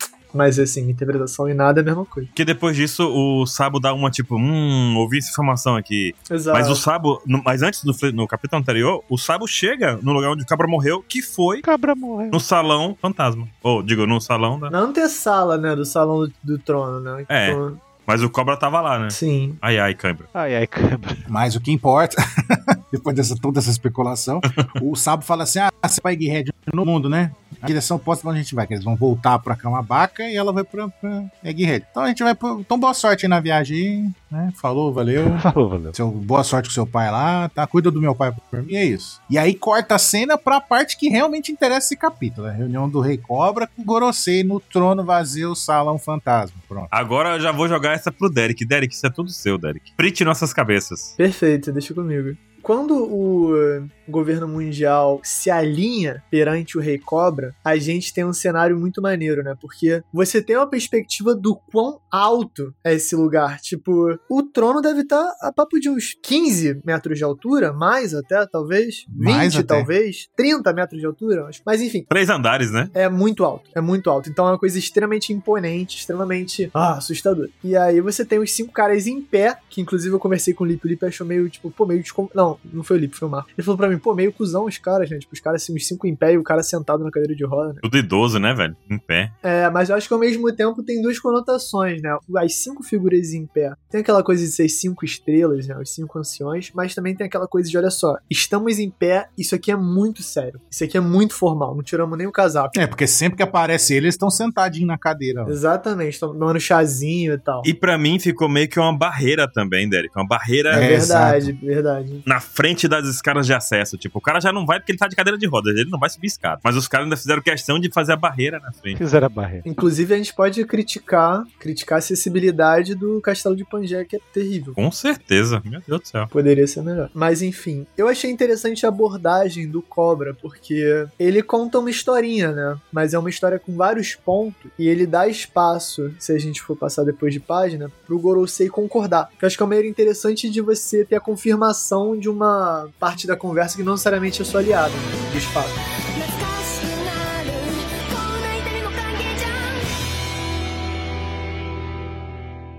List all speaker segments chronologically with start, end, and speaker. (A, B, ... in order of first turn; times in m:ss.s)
0:00.3-0:02.3 A
0:02.4-0:11.6 B
0:06.3-0:06.8 A
0:11.6-0:12.4 C
0:12.3-0:14.7 B
0:14.7-0:17.8 A
0:17.3-0:20.3 B
0:19.1-0:19.6 A
0:20.3-0:21.2 C
0:21.3-0:46.9 D
0:35.2-0:35.9 C
0:46.9-0:51.2 B
0:51.2-1:12.1 A
1:09.1-1:09.9 D
1:12.1-1:12.9 B
1:12.9-1:27.8 A
1:27.8-1:29.3 B
1:29.4-1:42.8 A
1:42.7-1:45.6 D
1:45.4-1:47.7 A
1:47.6-1:50.9 B
1:50.7-1:51.5 D
1:50.7-1:52.2 A
1:52.2-1:59.0 B
1:58.9-1:59.6 C
1:59.6-2:04.8 A
2:04.8-2:06.3 B
2:06.3-2:25.8 A
2:26.1-2:29.8 E